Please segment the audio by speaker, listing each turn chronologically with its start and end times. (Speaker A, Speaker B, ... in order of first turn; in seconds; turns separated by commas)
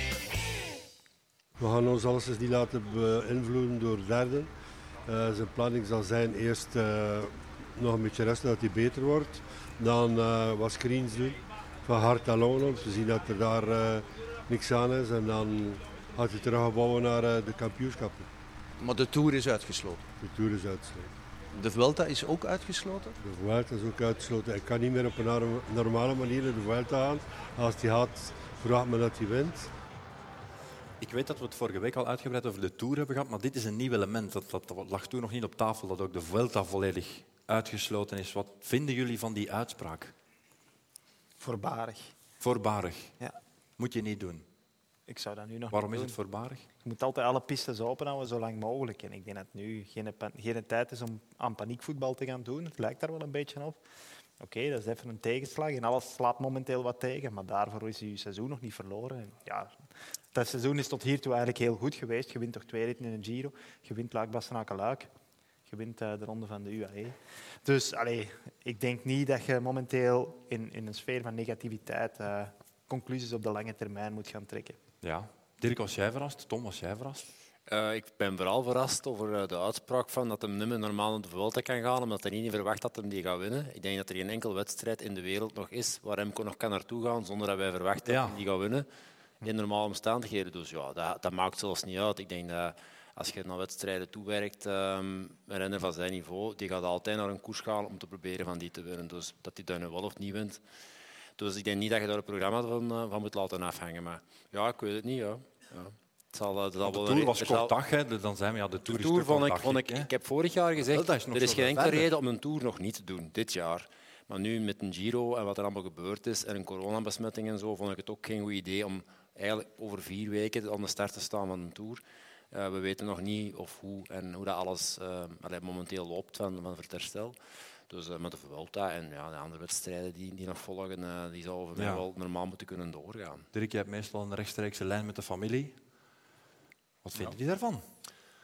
Speaker A: 1.6-4.5, Speaker A: 5.1-18.3, Speaker B: 18.8-20.1, Speaker A: 20.2-21.1, Speaker B: 21.5-23.2, Speaker A: 23.2-29.7, Speaker C: 31.0-40.1, Speaker D: 41.4-42.1, Speaker C: 42.4-43.1, Speaker C: 43.8-44.5, Speaker D: 45.1-46.1, Speaker C: 45.7-46.6, Speaker D: 46.8-53.8, Speaker D: 54.4-59.7, Speaker D: 60.3-65.1, Speaker D: 65.7-74.8, Speaker C: 75.0-77.3, Speaker E: 77.7-88.8, Speaker C: 88.0-88.4, Speaker E: 89.4-100.6, Speaker E: 101.4-107.7, Speaker C: 106.8-110.1, Speaker E: 108.9-127.3, Speaker C: 110.8-112.1, Speaker E: 127.9-133.4, Speaker C: 131.8-132.0, Speaker C: 133.5-135.8, Speaker C: 137.0-137.8